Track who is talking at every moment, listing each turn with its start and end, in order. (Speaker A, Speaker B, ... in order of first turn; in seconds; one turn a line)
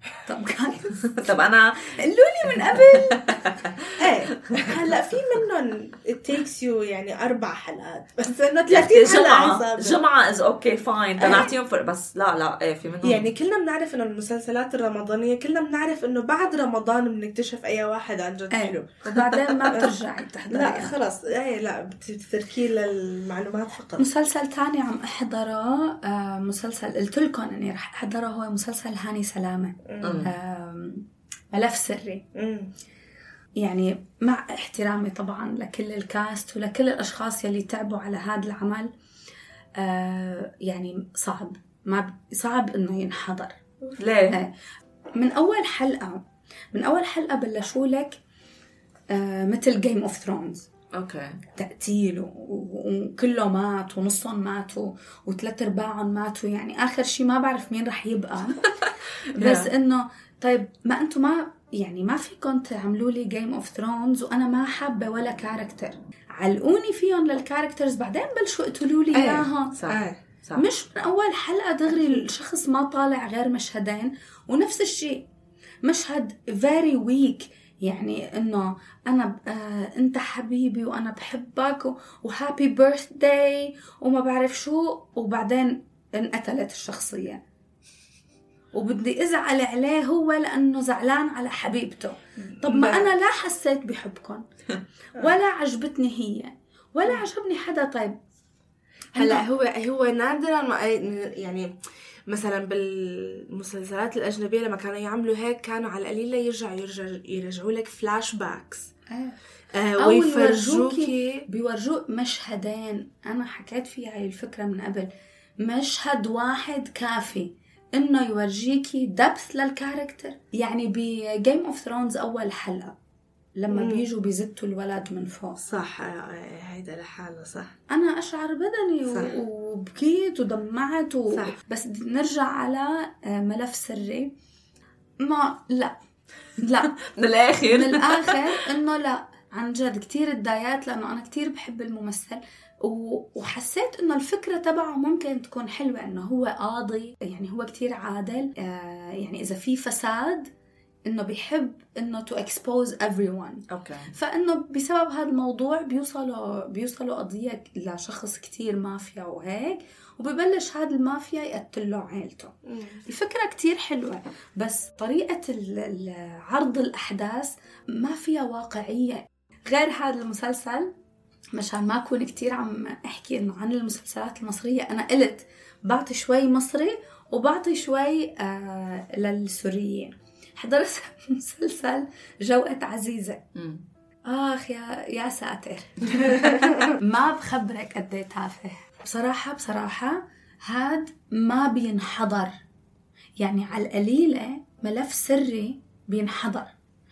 Speaker A: 0.2-1.2
Speaker B: 1.2-1.9
Speaker A: 2.0-3.6
Speaker B: 3.3-3.7
Speaker C: 4.0-10.0
Speaker B: 8.7-13.3
Speaker A: 11.2-11.5
Speaker C: 13.0-19.9
Speaker A: 18.5-20.9
Speaker C: 20.5-24.0
Speaker A: 24.0-32.2
Speaker C: 29.9-30.3
Speaker B: 30.0-30.3
Speaker C: 32.3-32.7
Speaker A: 33.6-38.9
Speaker A: 39.8-43.5
Speaker B: 44.0-44.4
Speaker A: 45.1-46.2
Speaker A: 46.7-48.2
Speaker A: 49.1-50.7
Speaker B: 50.9-51.4
Speaker A: 51.5-58.6
Speaker A: 59.3-69.8
Speaker B: 59.4-59.7
Speaker C: 69.1-70.2
Speaker B: 69.8-70.6
Speaker A: 70.5-75.2
Speaker A: 75.8-87.4
Speaker A: 88.7-94.4
Speaker C: 92.6-93.1
Speaker A: 95.2-98.2
Speaker A: 99.1-99.5
Speaker C: 99.1-101.7
Speaker C: 102.3-108.9
Speaker A: 109.1-109.4
Speaker C: 109.7-111.4
Speaker A: 110.0-115.1
Speaker A: 115.6-122.9
Speaker A: 123.6-125.6
Speaker C: 123.7-124.0
Speaker C: 125.6-127.7
Speaker A: 127.9-134.3
Speaker A: 135.2-135.9
Speaker A: 136.6-136.9
Speaker B: 137.0-138.5
Speaker A: 137.7-150.5
Speaker A: 151.1-153.6
Speaker B: 153.7-154.1
Speaker A: 154.1-162.5
Speaker C: 162.7-163.0
Speaker A: 163.1-170.9
Speaker A: 171.5-183.4
Speaker B: 183.5-183.8
Speaker A: 184.2-192.6
Speaker C: 186.3-186.7
Speaker A: 193.4-196.7